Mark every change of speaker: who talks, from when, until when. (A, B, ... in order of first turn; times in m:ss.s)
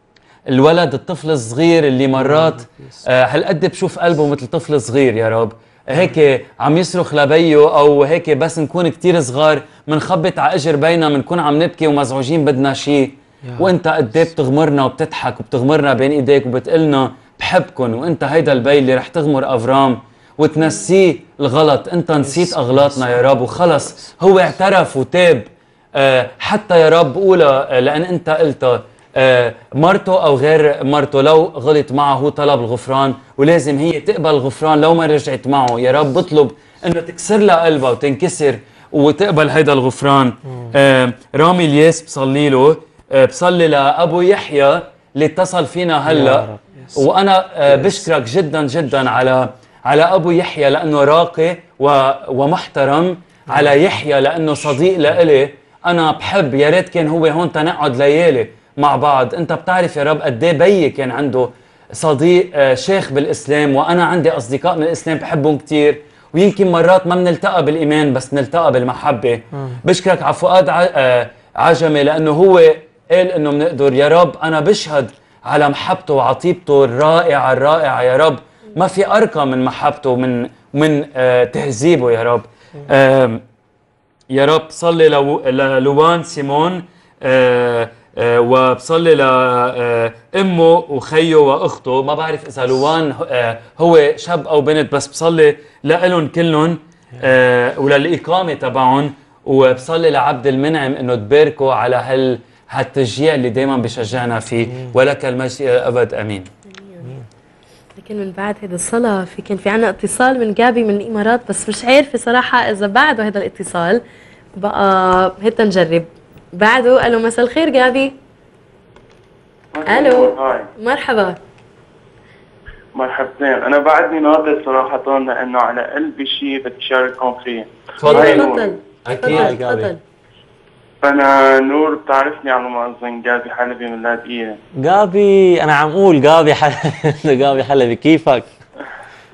0:00.5-0:25.4 A
0:02.2-0:03.0 B
0:13.4-0:13.7 B
0:22.2-0:24.1 B
0:26.0-1:23.4 A
0:40.4-0:40.7 B
0:46.0-0:47.1 B
0:47.6-0:48.1 B
0:53.5-0:53.8 B
1:09.5-1:09.8 B
1:24.3-1:46.5 A
1:44.6-1:45.0 B
1:46.7-1:47.1 C
1:48.0-1:54.0 C
1:54.6-1:58.1 C
1:59.7-2:00.7 D
1:59.9-2:01.4 C
2:03.0-2:08.8 D
2:08.0-2:08.5 A
2:08.0-2:10.0 C
2:09.0-2:09.7 A
2:09.3-2:09.9 B
2:11.0-2:14.6 D
2:14.8-2:18.5 B